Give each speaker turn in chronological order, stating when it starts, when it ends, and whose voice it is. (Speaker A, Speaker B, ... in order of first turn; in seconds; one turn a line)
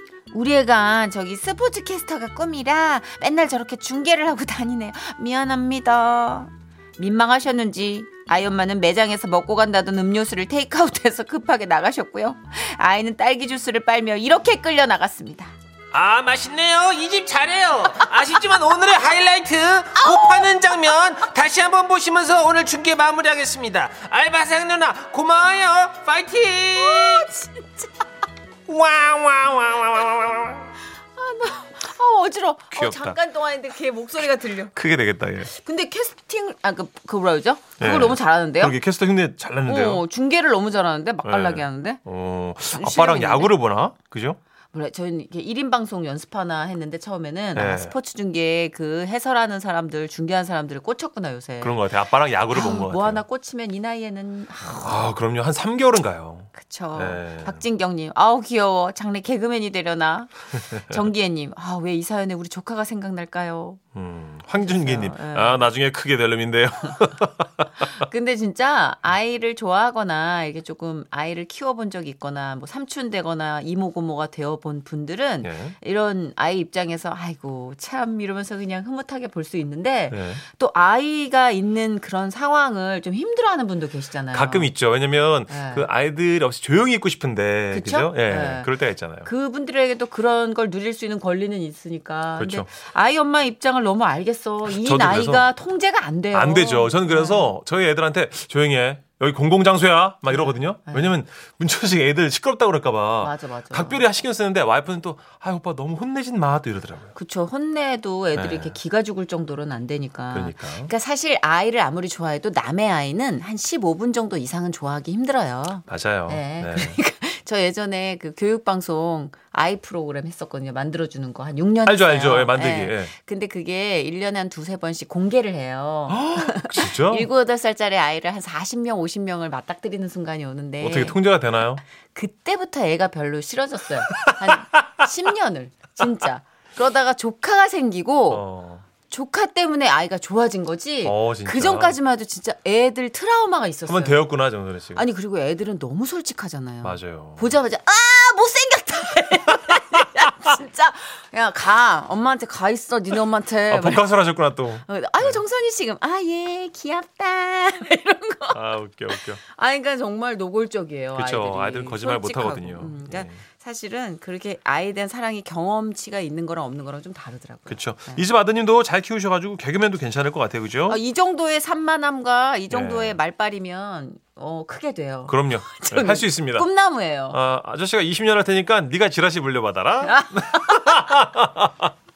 Speaker A: 0.3-15.5
Speaker B: 15.9-27.2
Speaker A: 20.0-20.5
Speaker A: 26.8-27.9
Speaker B: 28.7-30.7
Speaker A: 31.2-34.7
Speaker C: 32.7-33.2
Speaker C: 34.7-35.5
Speaker A: 35.5-38.8
Speaker C: 37.8-40.0
Speaker A: 39.6-42.0
Speaker C: 41.2-44.4
Speaker A: 42.7-43.5
Speaker A: 44.7-51.8
Speaker C: 47.5-47.9
Speaker C: 51.6-53.2
Speaker A: 52.5-55.1
Speaker C: 54.7-57.6
Speaker A: 56.5-63.8
Speaker C: 63.9-67.9
Speaker A: 64.6-65.7
Speaker A: 68.0-84.7
Speaker C: 75.4-75.8
Speaker C: 80.1-80.4
Speaker C: 84.3-89.3
Speaker A: 85.5-85.8
Speaker A: 87.7-88.7
Speaker A: 89.2-97.5
Speaker C: 92.4-92.7
Speaker C: 94.6-95.5
Speaker C: 96.3-107.1
Speaker A: 100.3-101.1
Speaker A: 103.2-104.0
Speaker A: 107.1-131.2
Speaker C: 108.3-108.8
Speaker C: 110.3-110.9
Speaker C: 115.9-117.0
Speaker C: 121.8-123.1
Speaker C: 126.1-127.3
Speaker C: 130.8-131.8
Speaker A: 132.1-138.4
Speaker C: 138.3-138.8
Speaker A: 139.1-144.2
Speaker C: 141.0-142.0
Speaker C: 143.8-145.0
Speaker A: 144.9-154.1
Speaker C: 146.8-147.6
Speaker C: 153.7-155.4
Speaker A: 154.9-158.6
Speaker C: 158.5-159.4
Speaker A: 159.5-168.2
Speaker C: 161.2-163.4
Speaker C: 167.7-171.0
Speaker A: 170.8-177.4
Speaker C: 172.7-173.2
Speaker C: 175.3-176.7
Speaker C: 177.3-181.9
Speaker A: 180.0-181.1